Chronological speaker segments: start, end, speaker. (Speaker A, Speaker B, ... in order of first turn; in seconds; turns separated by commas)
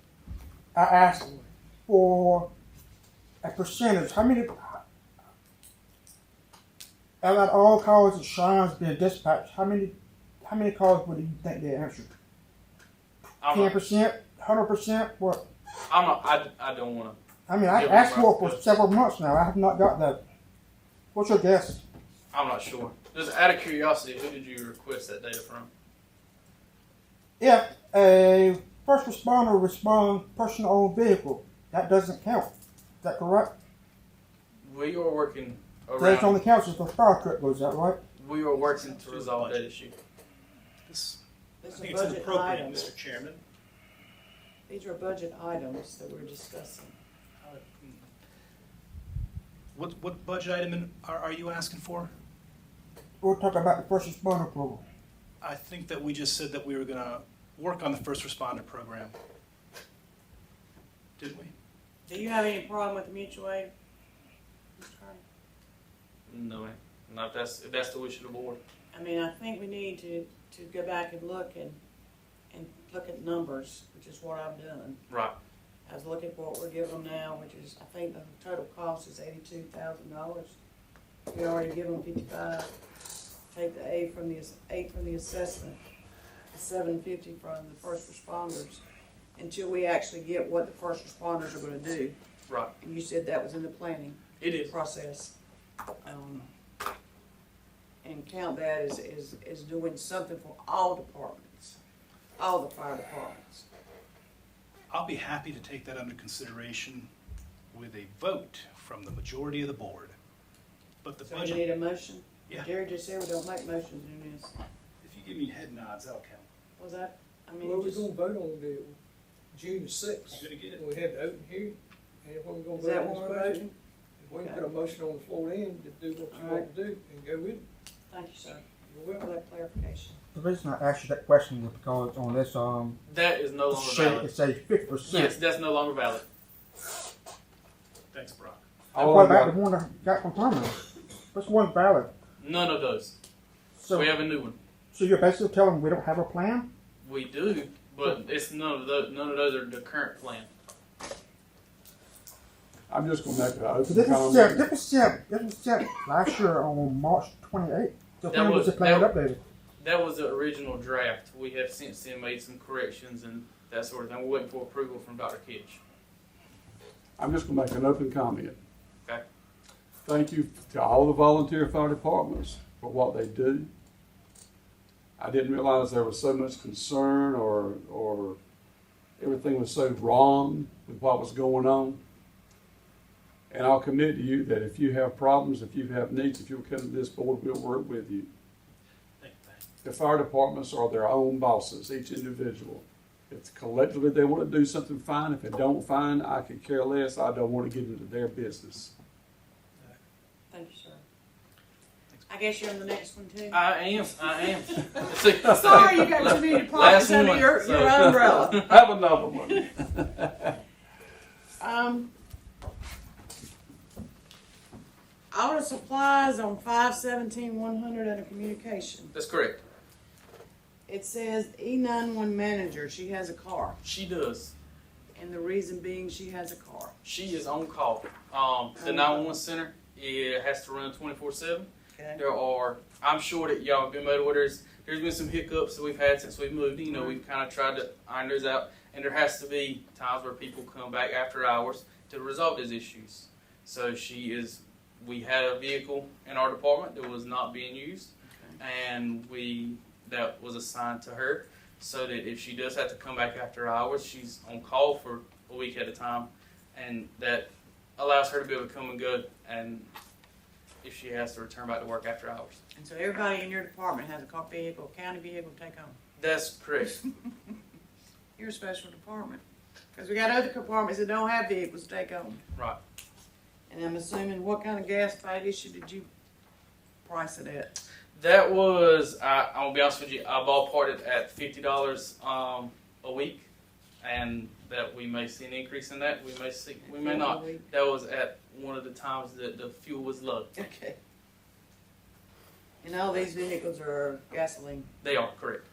Speaker A: 0.8-2.5, Speaker A: 3.4-4.8, Speaker A: 7.2-12.1, Speaker B: 13.4-13.9, Speaker A: 13.5-15.4, Speaker B: 15.9-17.2, Speaker A: 17.5-20.2, Speaker B: 17.7-18.7, Speaker A: 21.1-21.8, Speaker B: 22.3-25.7, Speaker A: 27.4-32.5, Speaker A: 33.0-33.5, Speaker B: 34.6-36.4, Speaker A: 36.0-38.0, Speaker B: 38.2-40.0, Speaker C: 38.7-39.6, Speaker C: 40.9-43.4, Speaker D: 41.6-42.9, Speaker D: 44.7-47.0, Speaker C: 47.4-48.1, Speaker C: 49.7-52.1, Speaker A: 53.2-54.8, Speaker C: 55.4-59.1, Speaker C: 61.2-61.5, Speaker D: 62.1-63.7, Speaker D: 64.8-65.2, Speaker B: 66.3-68.6, Speaker D: 68.9-71.8, Speaker D: 72.5-75.0, Speaker B: 75.1-75.3, Speaker D: 75.9-80.6, Speaker D: 81.3-82.7, Speaker D: 83.5-85.8, Speaker D: 86.5-88.8, Speaker D: 89.4-92.2, Speaker D: 92.8-95.3, Speaker B: 94.4-94.7, Speaker D: 96.0-96.5, Speaker D: 98.0-101.8, Speaker D: 102.4-103.7, Speaker C: 104.9-107.1, Speaker C: 107.7-110.2, Speaker C: 111.0-111.6, Speaker D: 111.2-114.5, Speaker C: 115.0-116.5, Speaker D: 116.8-118.1, Speaker E: 117.6-119.0, Speaker E: 119.5-123.7, Speaker C: 120.3-120.8, Speaker D: 122.8-123.7, Speaker E: 124.2-127.6, Speaker D: 124.3-124.7, Speaker D: 126.3-126.7, Speaker D: 128.1-130.2, Speaker E: 128.9-129.2, Speaker A: 130.3-133.0, Speaker B: 133.1-134.3, Speaker A: 133.7-135.4, Speaker B: 135.1-136.3, Speaker C: 138.1-138.6, Speaker A: 138.9-140.8, Speaker F: 138.9-139.6, Speaker A: 141.3-142.1, Speaker B: 142.4-143.2, Speaker A: 143.8-144.1, Speaker B: 143.9-144.6, Speaker A: 144.9-146.7, Speaker B: 147.0-150.5, Speaker F: 152.9-154.7, Speaker A: 153.9-159.4, Speaker B: 158.3-159.1, Speaker B: 159.8-165.8, Speaker F: 167.2-168.6, Speaker F: 170.1-173.7, Speaker F: 175.2-178.4, Speaker F: 179.2-182.0, Speaker F: 183.5-188.3, Speaker C: 189.2-189.6, Speaker F: 189.8-198.9, Speaker D: 200.5-201.0, Speaker D: 202.3-208.7, Speaker B: 203.5-208.8, Speaker F: 208.0-210.5, Speaker D: 211.6-212.1, Speaker D: 215.3-219.1, Speaker B: 219.1-219.6, Speaker D: 220.9-223.8, Speaker B: 223.8-224.5, Speaker D: 225.2-226.9, Speaker B: 227.0-259.9, Speaker D: 228.8-229.4, Speaker D: 231.9-232.2, Speaker D: 236.9-237.2, Speaker D: 248.2-248.6, Speaker B: 260.8-262.6, Speaker D: 262.8-266.0, Speaker B: 266.2-267.0, Speaker D: 268.4-269.4, Speaker D: 269.9-272.4, Speaker D: 273.7-276.1, Speaker D: 277.1-277.8, Speaker B: 278.1-283.5, Speaker B: 284.0-290.5, Speaker D: 286.8-287.7, Speaker D: 290.6-291.0, Speaker D: 292.8-294.9, Speaker B: 295.0-295.6